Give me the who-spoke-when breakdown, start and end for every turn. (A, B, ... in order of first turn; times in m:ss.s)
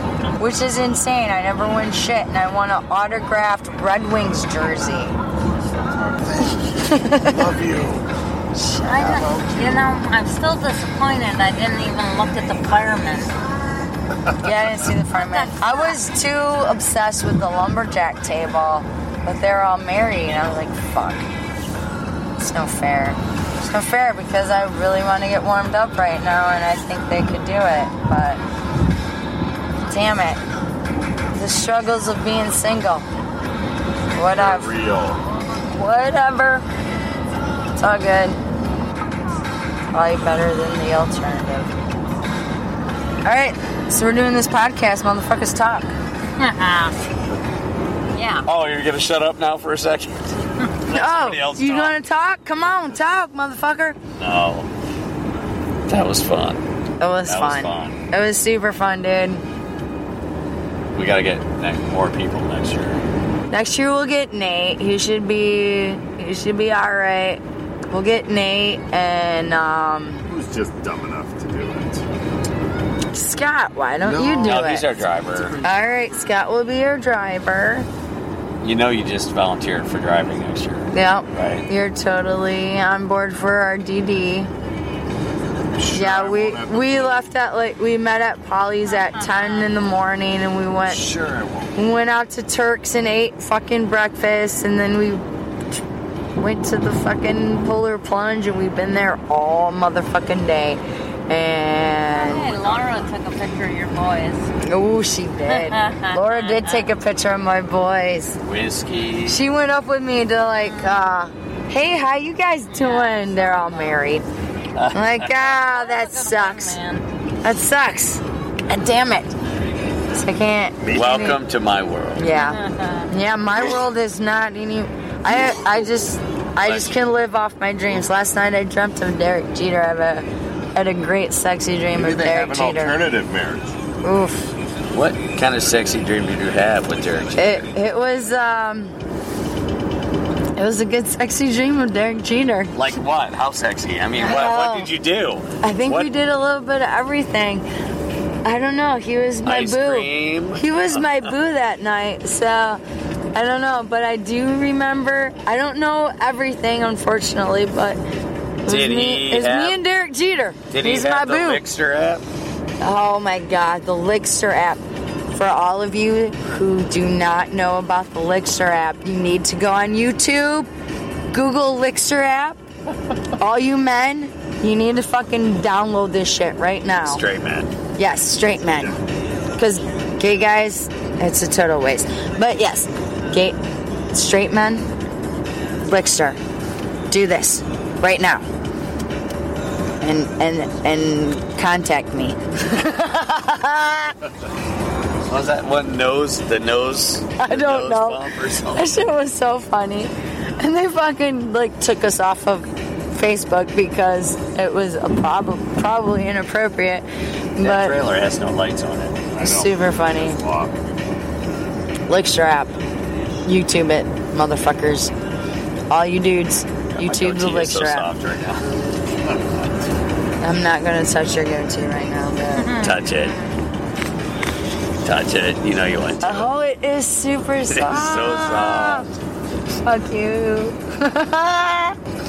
0:00.4-0:05.2 A
0:05.7-0:08.1 B
0:06.9-0:07.4 A
0:08.6-0:09.3 A
0:08.8-0:13.3 C
0:09.0-0:09.9 B
0:14.4-0:21.3 A
0:15.1-0:16.0 C
0:22.4-0:28.4 A
0:29.9-0:30.4 A
0:31.3-0:33.1 A
0:34.1-0:34.7 A
0:34.2-0:35.2 B
0:35.7-0:36.6 A
0:37.8-0:38.4 A
0:39.9-0:41.7 A
0:43.2-0:45.9 A
0:46.4-0:47.0 C
0:48.2-0:48.5 C
0:48.4-0:52.0 D
0:50.9-0:54.0 A
0:54.2-0:54.7 D
0:55.9-0:56.6 D
0:57.0-0:59.4 A
0:57.3-0:58.0 D
1:00.9-1:03.0 D
1:03.5-1:10.3 A
1:10.3-1:12.0 B
1:13.1-1:15.0 A
1:14.0-1:14.7 B
1:14.4-1:15.6 D
1:15.4-1:15.8 B
1:15.6-1:17.9 A
1:18.6-1:21.7 D
1:20.9-1:24.5 A
1:25.5-1:27.3 B
1:25.9-1:31.0 A
1:28.9-1:29.7 C
1:30.9-1:31.7 D
1:31.8-1:35.3 A
1:36.4-1:42.5 A
1:42.2-1:44.5 C
1:42.3-1:43.1 D
1:44.6-1:48.4 A
1:45.5-1:46.9 C
1:48.4-1:49.4 D
1:49.3-1:54.2 A
1:50.6-1:51.0 C
1:52.7-1:54.0 C
1:54.8-1:55.4 D
1:54.9-1:56.8 A
1:55.4-1:57.0 C
1:57.4-1:59.4 A
2:00.1-2:01.4 A
2:00.8-2:01.4 B
2:00.9-2:02.3 D
2:02.2-2:13.0 A
2:02.4-2:03.1 C
2:05.3-2:05.7 B
2:06.6-2:07.0 D
2:11.9-2:13.8 B
2:14.0-2:14.5 A
2:14.9-2:17.6 D
2:17.4-2:19.0 A
2:20.6-2:22.7 A
2:22.8-2:26.1 D
2:24.2-2:24.9 A
2:25.6-2:27.6 A
2:28.4-2:32.8 A
2:29.4-2:31.3 D
2:33.3-2:38.0 A
2:38.6-2:41.6 A
2:38.7-2:39.8 D
2:40.7-2:42.2 D
2:42.8-2:44.8 A
2:45.3-2:50.7 A
2:51.3-2:52.6 A
2:53.4-2:57.2 A
2:57.0-2:57.7 D
2:58.0-2:59.0 A
2:59.6-3:03.6 A
3:04.1-3:04.9 A
3:05.8-3:06.4 A
3:07.1-3:08.4 A
3:10.0-3:14.2 A
3:15.3-3:19.0 D
3:17.4-3:27.1 A
3:27.6-3:28.0 A
3:27.6-3:29.3 D
3:29.3-3:30.9 B
3:29.4-3:30.4 A
3:32.1-3:32.7 A
3:33.4-3:35.1 A
3:35.9-3:38.1 A
3:37.0-3:38.8 D
3:39.2-3:39.7 B
3:40.4-3:42.8 A
3:42.6-3:43.5 C
3:42.8-3:43.4 D
3:45.0-3:46.5 D
3:46.2-3:49.1 A
3:47.7-3:49.1 D
3:49.8-3:52.0 A